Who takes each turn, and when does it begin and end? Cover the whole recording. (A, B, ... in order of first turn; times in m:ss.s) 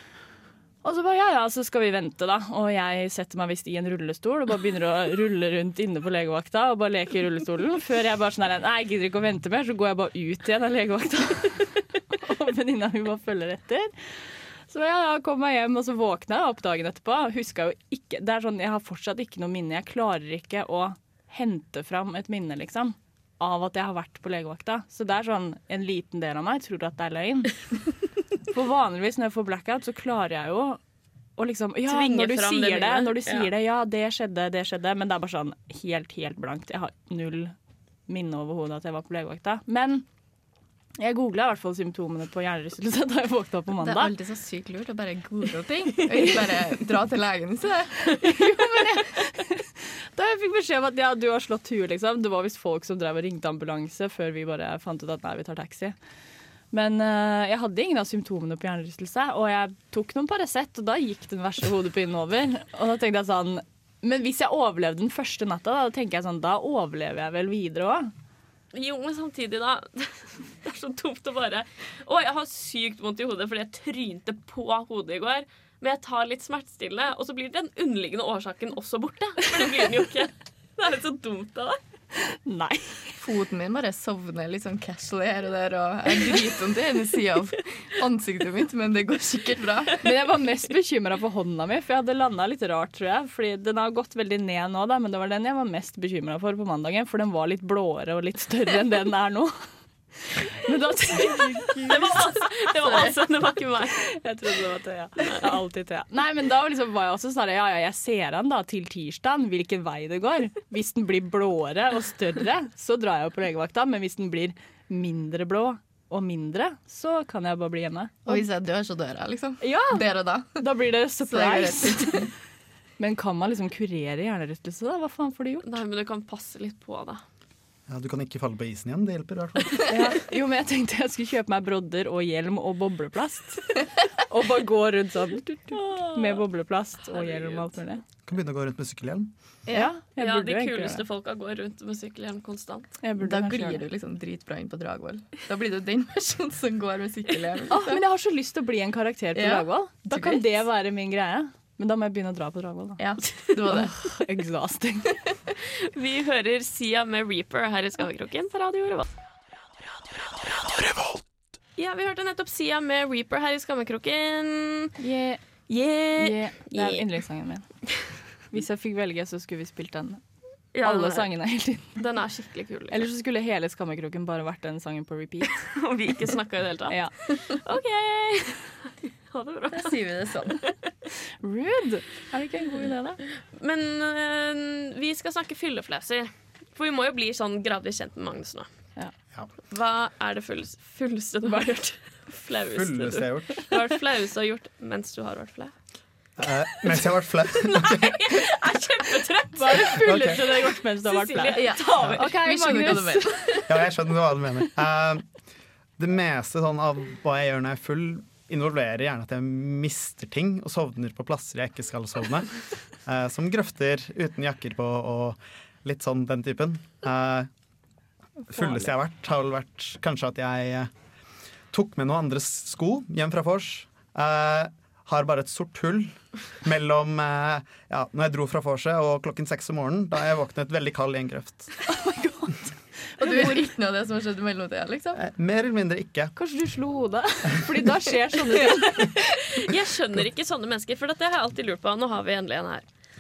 0:00.8-0:27.8 A
0:28.5-0:30.8 A
0:31.4-0:37.5 A
0:31.8-0:33.5 B
0:38.1-0:40.0 A
0:41.0-0:44.1 A
0:43.8-0:48.2 C
0:48.2-0:55.9 A
0:56.7-1:08.1 A
1:08.7-1:21.8 B
1:22.2-1:23.2 A
1:23.2-1:30.0 C
1:30.0-1:39.5 A
1:40.2-1:42.3 A
1:41.8-1:45.6 B
1:44.1-1:58.4 A
1:58.2-2:00.6 C
1:59.6-2:02.3 A
2:01.2-2:02.3 C
2:03.0-2:05.7 A
2:05.6-2:07.2 B
2:07.9-2:09.9 D
2:09.9-2:18.0 A
2:15.7-2:16.4 B
2:17.1-2:17.8 B
2:18.3-2:19.3 D
2:19.7-2:21.0 A
2:20.2-2:22.9 B
2:23.0-2:23.8 A
2:23.2-2:28.0 C
2:27.7-2:33.0 A
2:29.3-2:30.4 C
2:33.0-2:34.1 C
2:33.7-2:35.2 A
2:35.6-2:39.1 B
2:41.8-2:44.9 B
2:45.0-2:45.4 A
2:45.7-2:47.0 B
2:46.2-2:50.2 A
2:50.7-2:51.3 B
2:50.8-2:52.0 A
2:52.0-2:53.1 B
2:52.9-2:55.9 A
2:55.7-3:00.0 B
2:56.9-2:57.1 A
2:59.7-3:00.7 C
3:01.4-3:03.2 A
3:03.5-3:08.7 B
3:09.7-3:15.7 B
3:12.7-3:13.7 D
3:16.4-3:18.3 D
3:17.6-3:22.3 B
3:19.6-3:23.7 A
3:20.0-3:20.4 D
3:21.6-3:23.7 C
3:23.7-3:25.2 D
3:26.0-3:37.5 D
3:38.5-3:40.9 D
3:41.7-3:51.8 D
3:51.9-3:52.7 A
3:53.2-3:53.6 A
3:53.2-3:55.2 C
3:55.1-3:56.3 D
3:56.4-3:59.2 A
3:59.6-4:02.9 B